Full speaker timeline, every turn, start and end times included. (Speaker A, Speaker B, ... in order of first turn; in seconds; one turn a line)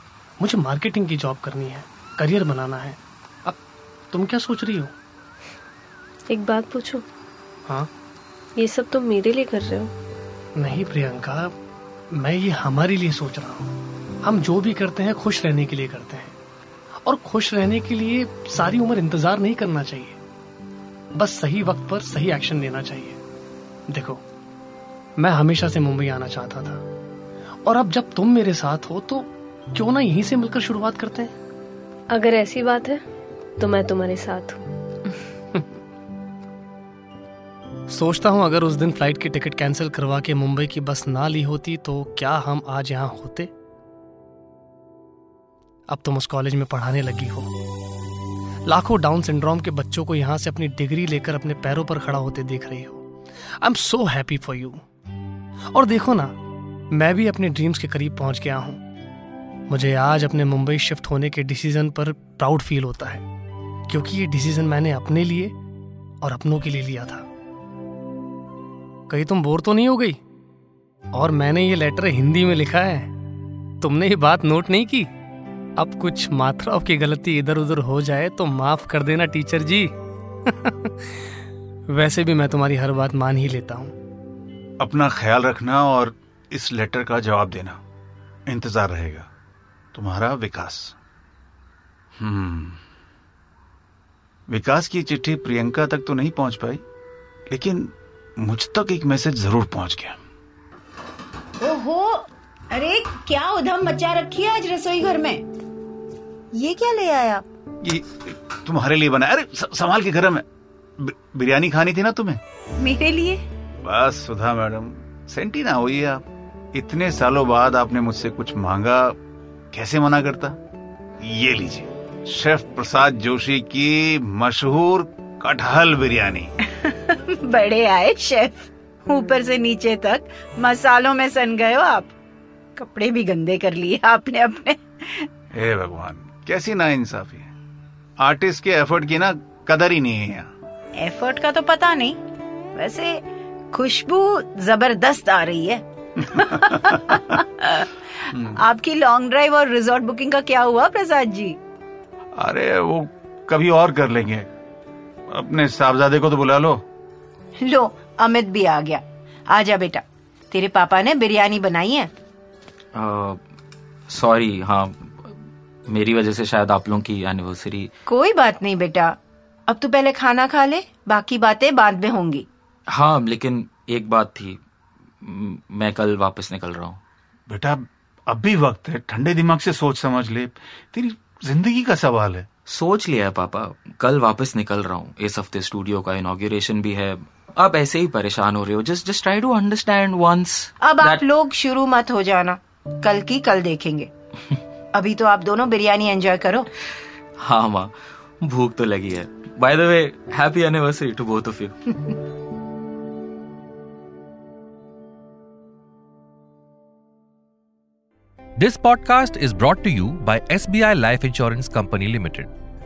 Speaker A: 0.4-3.6
Speaker A: 4.1-4.9
Speaker B: 6.3-7.0
Speaker B: 8.6-9.9
Speaker A: 10.6-11.5
Speaker A: 12.1-16.4
Speaker A: 17.0-20.2
Speaker A: 21.1-23.2
Speaker A: 23.9-24.2
Speaker A: 25.2-26.8
Speaker A: 27.6-31.3
Speaker B: 32.1-33.0
Speaker B: 33.6-34.6
Speaker A: 37.9-43.5
Speaker A: 45.9-47.5
Speaker A: 48.6-53.0
Speaker A: 53.6-54.8
Speaker A: 55.7-56.3
Speaker A: 56.9-58.8
Speaker A: 59.7-63.2
Speaker A: 63.9-65.5
Speaker A: 66.2-67.3
Speaker A: 69.1-70.2
Speaker A: 71.1-73.1
Speaker A: 73.8-75.1
Speaker A: 75.8-79.9
Speaker A: 80.5-81.3
Speaker A: 81.9-83.9
Speaker C: 84.8-87.8
Speaker C: 88.5-89.3
Speaker C: 89.9-91.0
Speaker C: 92.2-92.8
Speaker C: 94.5-96.8
Speaker C: 97.5-100.2
Speaker D: 101.6-105.4
Speaker D: 106.5-107.4
Speaker C: 107.8-110.4
Speaker C: 111.0-112.4
Speaker D: 112.8-113.4
Speaker C: 113.8-119.2
Speaker C: 119.7-120.6
Speaker C: 121.2-126.5
Speaker D: 126.7-132.1
Speaker D: 132.8-135.3
Speaker C: 135.5-137.5
Speaker C: 138.2-140.5
Speaker D: 141.0-142.2
Speaker D: 142.8-143.2
Speaker D: 143.7-151.6
Speaker C: 152.4-154.5
Speaker C: 155.3-156.8
Speaker D: 157.6-162.1
Speaker E: 162.9-163.4
Speaker E: 164.1-165.3
Speaker E: 165.9-167.9
Speaker D: 168.1-169.2
Speaker D: 169.7-172.4
Speaker E: 172.9-174.6
Speaker E: 175.2-177.0
Speaker C: 177.5-182.5
Speaker E: 182.7-191.2
Speaker D: 190.8-194.1
Speaker D: 194.9-196.7
Speaker E: 197.4-201.7
Speaker F: 208.6-212.5